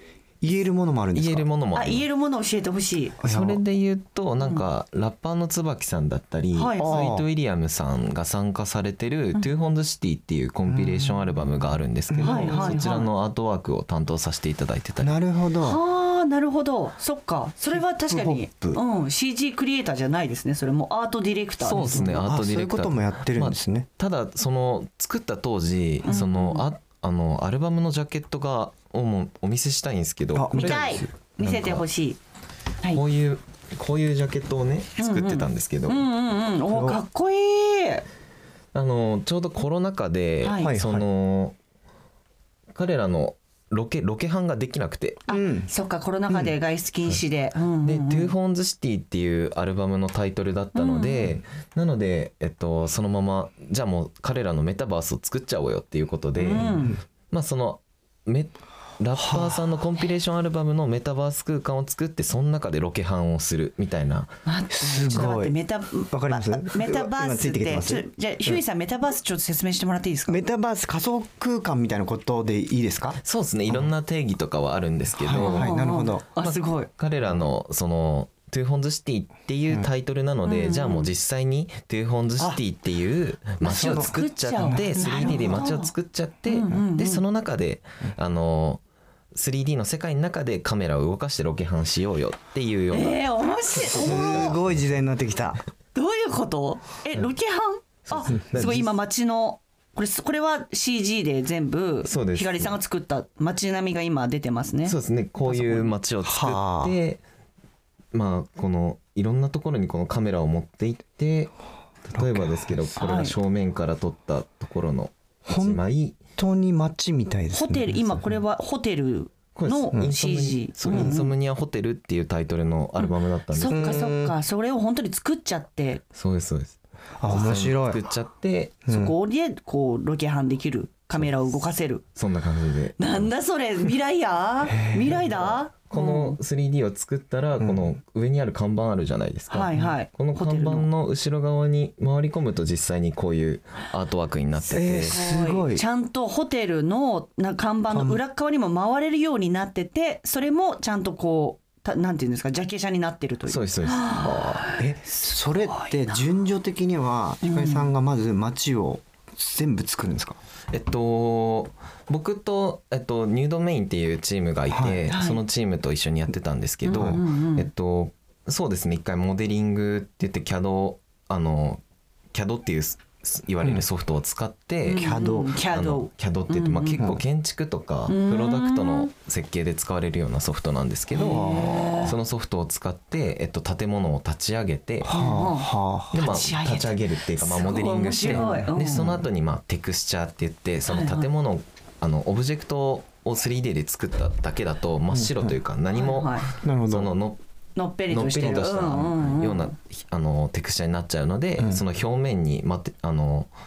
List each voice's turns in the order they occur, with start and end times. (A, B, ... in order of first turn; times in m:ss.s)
0:00.4-0:01.5 A
0:01.1-0:02.0 B
0:01.7-0:03.2 C
0:03.2-0:03.6 A
0:03.2-0:15.2 B
0:06.5-0:07.0 C
0:06.8-0:07.3 A
0:10.7-0:11.3 A
0:12.1-0:13.0 A
0:12.2-0:13.1 C
0:15.0-0:15.8 A
0:15.6-0:22.0 C
0:17.7-0:18.8 A
0:21.6-0:23.9 A
0:21.7-0:31.8 B
0:26.0-0:26.6 C
0:30.3-0:31.1 A
0:30.6-0:32.2 C
0:32.9-0:36.0 B
0:35.0-0:38.0 C
0:36.7-0:37.0 A
0:38.7-0:41.6 B
0:40.4-0:40.7 C
0:40.6-0:41.0 A
0:42.7-0:45.2 B
0:45.3-0:48.3 C
0:45.3-0:45.7 A
0:47.8-1:04.4 B
0:50.7-0:51.3 C
0:56.4-0:57.0 C
0:56.6-0:57.0 A
0:59.1-0:59.6 A
1:04.4-1:10.4 C
1:04.7-1:05.6 A
1:06.1-1:08.6 A
1:10.3-1:13.9 A
1:13.2-1:15.7 B
1:15.2-1:16.3 A
1:15.4-1:16.9 C
1:16.4-1:28.8 B
1:20.4-1:21.1 C
1:23.6-1:25.9 C
1:23.6-1:24.1 A
1:24.6-1:25.7 A
1:26.5-1:27.2 C
1:29.3-1:33.2 B
1:32.9-1:34.6 C
1:33.9-1:34.5 B
1:33.9-1:35.6 A
1:35.9-1:45.9 C
1:38.1-1:38.9 B
1:42.0-1:42.8 B
1:44.8-1:47.2 B
1:46.2-1:46.9 A
1:48.1-1:51.5 B
1:52.1-1:56.2 B
1:52.1-1:52.7 A
1:53.0-1:53.4 C
1:55.4-1:55.8 A
1:56.3-1:58.4 A
1:57.5-2:01.3 C
1:59.5-2:04.1 B
2:00.9-2:01.2 A
2:03.0-2:06.0 C
2:03.7-2:04.3 A
2:06.1-2:08.8 B
2:07.2-2:08.0 A
2:08.8-2:09.1 A
2:08.9-2:12.0 C
2:12.1-2:13.3 B
2:13.0-2:16.4 C
2:14.7-2:15.2 A
2:15.2-2:25.2 B
2:17.6-2:17.8 A
2:19.5-2:20.9 C
2:24.7-2:25.8 A
2:25.1-2:36.2 C
2:27.9-2:28.2 A
2:33.4-2:34.1 B
2:34.1-2:40.4 A
2:37.4-2:37.9 C
2:40.7-2:51.8 B
2:44.7-2:45.0 A
2:45.1-2:45.4 C
2:46.8-2:47.7 C
2:46.9-2:47.2 A
2:52.3-3:05.2 B
2:54.8-2:57.0 C
2:54.9-2:55.5 A
2:58.1-2:59.1 C
3:01.1-3:02.1 C
3:01.2-3:02.2 A
3:05.0-3:06.1 A
3:05.1-3:09.1 C
3:06.1-3:17.4 B
3:08.3-3:09.2 A
3:10.9-3:11.3 C
3:15.1-3:15.5 A
3:15.9-3:16.5 C
3:16.6-3:17.1 A
3:17.8-3:19.7 C
3:18.1-3:23.5 B
3:21.6-3:21.8 A